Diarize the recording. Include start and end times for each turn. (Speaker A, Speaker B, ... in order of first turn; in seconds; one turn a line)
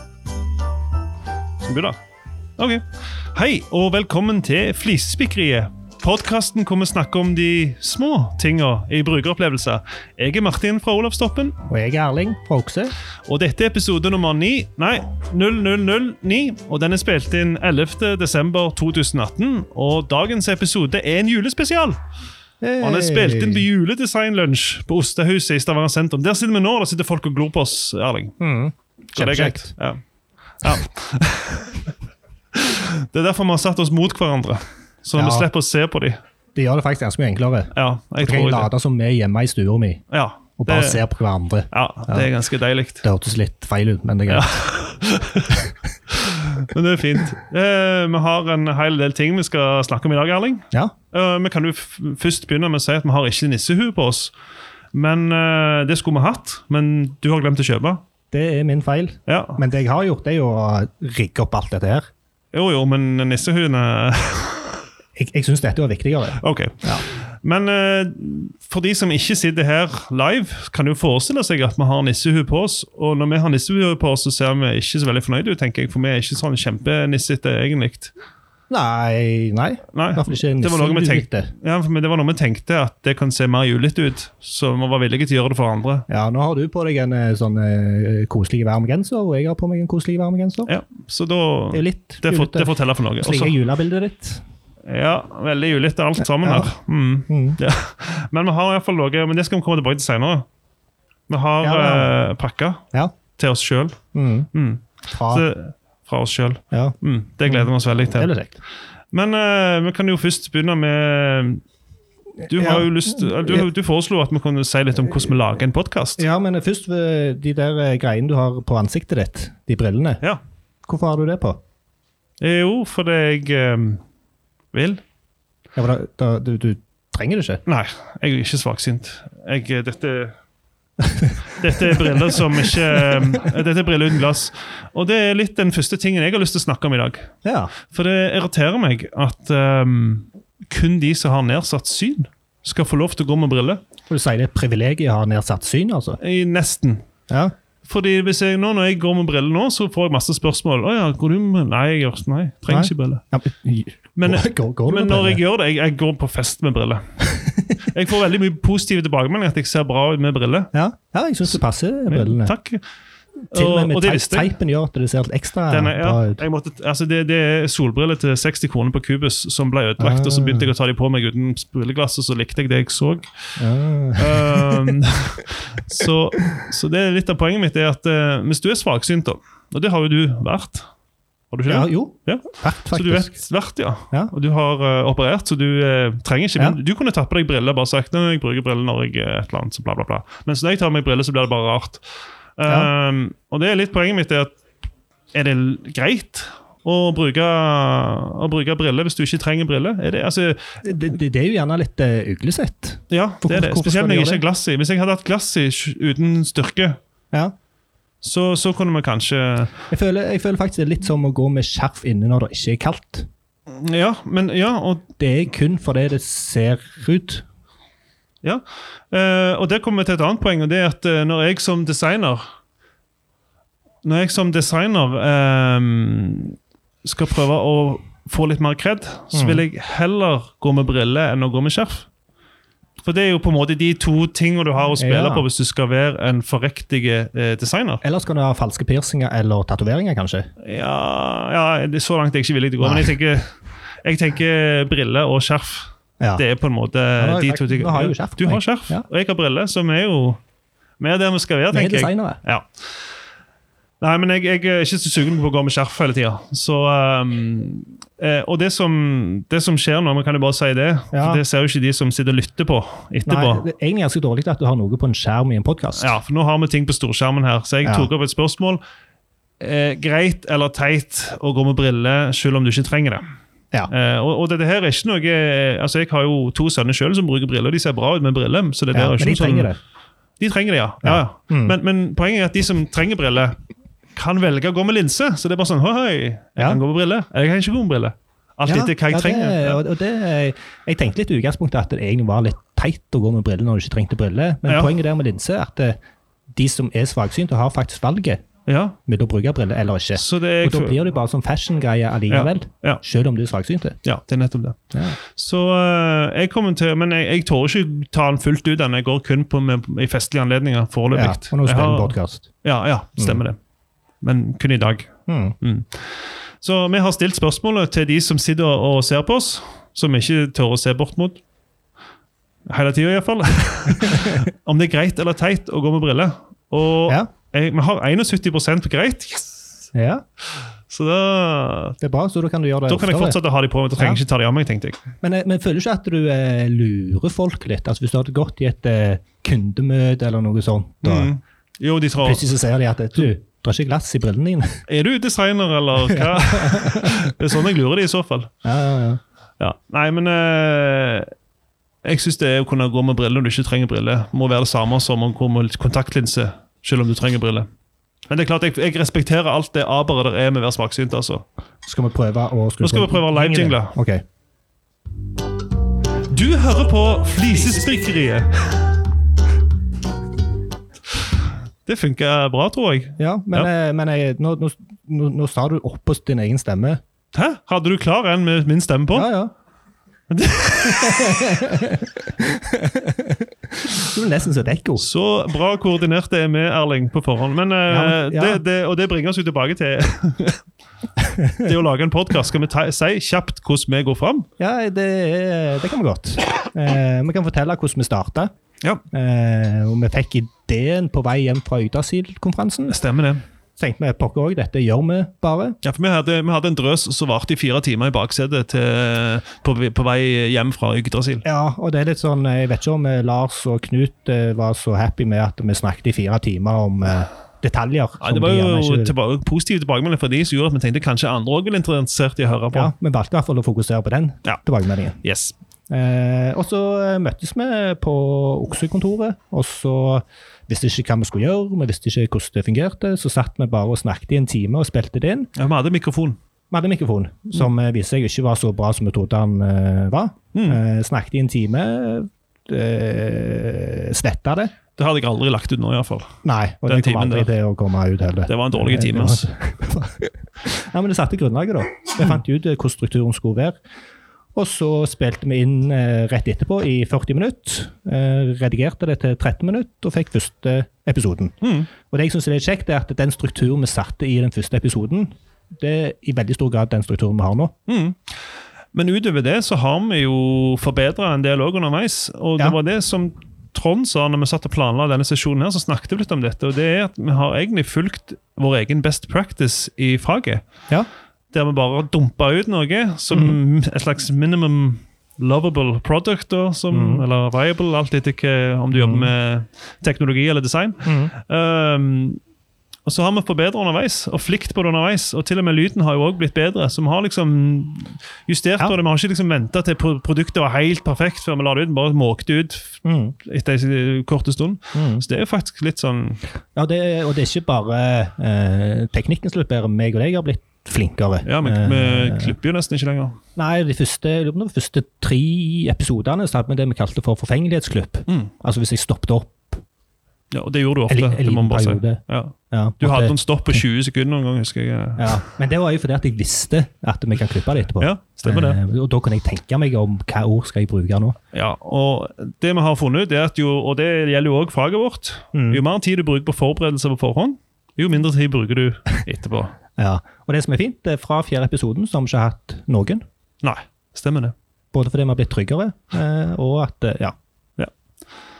Speaker A: 1.6-1.9
Speaker A: 2.6-11.6
Speaker B: 11.7-12.9
Speaker A: 13.3-22.0
Speaker B: 22.6-23.6
Speaker A: 22.8-28.4
Speaker B: 28.4-29.7
Speaker A: 29.1-30.0
Speaker A: 30.6-31.8
Speaker A: 32.5-36.2
Speaker B: 35.1-35.5
Speaker B: 36.5-40.0
Speaker A: 37.7-38.7
Speaker A: 40.1-41.0
Speaker B: 40.6-42.3
Speaker A: 41.7-43.0
Speaker B: 43.0-44.5
Speaker A: 44.3-54.3
Speaker A: 54.9-58.0
Speaker B: 58.3-62.0
Speaker A: 59.3-59.6
Speaker A: 62.5-64.8
Speaker B: 65.2-67.0
Speaker A: 66.3-78.1
Speaker B: 78.7-81.5
Speaker A: 79.9-86.1
Speaker B: 86.1-90.7
Speaker A: 90.7-93.5
Speaker B: 91.7-94.4
Speaker A: 94.8-100.5
Speaker B: 96.3-96.7
Speaker B: 97.3-97.6
Speaker A: 101.3-102.8
Speaker B: 101.6-102.1
Speaker A: 103.3-104.0
Speaker B: 104.1-104.5
Speaker A: 104.5-108.3
Speaker B: 105.1-105.5
Speaker B: 106.7-108.6
Speaker A: 109.1-111.6
Speaker B: 112.4-113.7
Speaker A: 112.5-116.2
Speaker B: 116.2-120.2
Speaker B: 120.8-121.6
Speaker A: 122.4-124.0
Speaker A: 124.7-125.0
Speaker B: 125.7-127.6
Speaker A: 127.7-130.3
Speaker B: 131.0-133.5
Speaker A: 131.6-137.3
Speaker B: 137.4-137.7
Speaker A: 137.8-143.8
Speaker B: 144.1-146.2
Speaker A: 146.2-147.0
Speaker A: 147.8-153.2
Speaker B: 152.7-155.4
Speaker A: 154.2-157.3
Speaker B: 157.3-157.6
Speaker A: 157.8-160.7
Speaker B: 160.7-162.5
Speaker A: 162.1-162.8
Speaker A: 163.5-164.5
Speaker B: 163.5-166.4
Speaker A: 165.7-173.5
Speaker B: 170.0-170.7
Speaker B: 173.6-175.0
Speaker A: 174.2-180.9
Speaker A: 181.5-192.0
Speaker B: 181.7-183.3
Speaker A: 192.6-194.6
Speaker A: 195.3-200.8
Speaker B: 200.8-204.4
Speaker A: 203.1-207.0
Speaker A: 208.2-209.7
Speaker B: 209.9-213.3
Speaker A: 213.7-215.1
Speaker B: 215.2-217.4
Speaker A: 218.4-222.4
Speaker A: 224.0-232.1
Speaker B: 229.3-229.6
Speaker A: 233.0-238.0
Speaker B: 235.0-235.5
Speaker B: 238.0-240.5
Speaker A: 240.6-250.4
Speaker B: 242.8-243.2
Speaker B: 247.2-249.0
Speaker A: 251.0-252.7
Speaker B: 251.7-252.4
Speaker A: 254.0-263.6
Speaker B: 261.1-261.4
Speaker B: 263.3-266.1
Speaker A: 266.0-268.8
Speaker A: 269.6-273.2
Speaker A: 273.9-279.7
Speaker B: 278.9-279.8
Speaker A: 280.4-283.6
Speaker B: 281.0-281.8
Speaker A: 284.1-289.8
Speaker B: 288.6-296.0
Speaker A: 294.7-294.9
Speaker B: 296.5-298.4
Speaker A: 298.7-299.0
Speaker B: 299.1-304.0
Speaker A: 300.1-301.0
Speaker A: 302.3-303.0
Speaker A: 304.0-313.6
Speaker B: 311.1-312.5
Speaker A: 314.2-321.4
Speaker B: 315.3-315.5
Speaker A: 322.7-329.9
Speaker B: 323.9-324.5
Speaker B: 329.9-330.2
Speaker A: 330.6-332.0
Speaker B: 332.0-333.4
Speaker A: 332.9-335.0
Speaker B: 335.2-341.3
Speaker A: 341.0-342.4
Speaker B: 342.2-344.8
Speaker A: 344.9-348.5
Speaker B: 346.0-347.3
Speaker B: 348.6-349.2
Speaker A: 349.6-351.3
Speaker A: 352.0-357.7
Speaker A: 358.3-361.4
Speaker B: 361.8-364.2
Speaker A: 362.8-363.9
Speaker A: 366.3-368.9
Speaker A: 371.9-373.7
Speaker B: 373.2-377.0
Speaker A: 377.3-379.3
Speaker B: 379.1-379.5
Speaker A: 380.3-381.7
Speaker B: 380.9-385.0
Speaker A: 385.0-390.6
Speaker B: 387.9-388.6
Speaker B: 391.2-391.7
Speaker A: 391.6-394.5
Speaker B: 394.6-398.5
Speaker B: 399.1-403.0
Speaker A: 402.9-403.4
Speaker B: 403.8-405.8
Speaker A: 405.8-411.4
Speaker B: 411.4-419.1
Speaker A: 418.2-422.9
Speaker B: 422.7-425.2
Speaker A: 425.2-425.5
Speaker B: 425.9-435.5
Speaker A: 435.6-436.4
Speaker B: 436.7-444.7
Speaker A: 440.5-440.8
Speaker A: 445.0-447.5
Speaker B: 446.4-453.8
Speaker A: 448.5-449.5
Speaker B: 454.5-467.7
Speaker A: 461.6-461.9
Speaker A: 467.9-468.4
Speaker A: 468.9-480.6
Speaker A: 481.5-492.4
Speaker B: 483.3-483.6
Speaker B: 486.9-487.2
Speaker B: 488.9-489.3
Speaker B: 491.0-491.3
Speaker A: 493.1-506.4
Speaker B: 503.0-503.4
Speaker B: 504.9-505.2
Speaker B: 506.7-512.5
Speaker A: 511.4-513.4
Speaker B: 513.5-519.8
Speaker A: 518.3-518.5
Speaker A: 520.5-525.5
Speaker B: 521.1-523.8
Speaker B: 525.2-531.4
Speaker A: 528.0-528.8
Speaker A: 531.5-539.7
Speaker B: 535.5-535.8
Speaker B: 540.0-543.2
Speaker A: 543.6-544.5
Speaker B: 544.9-547.3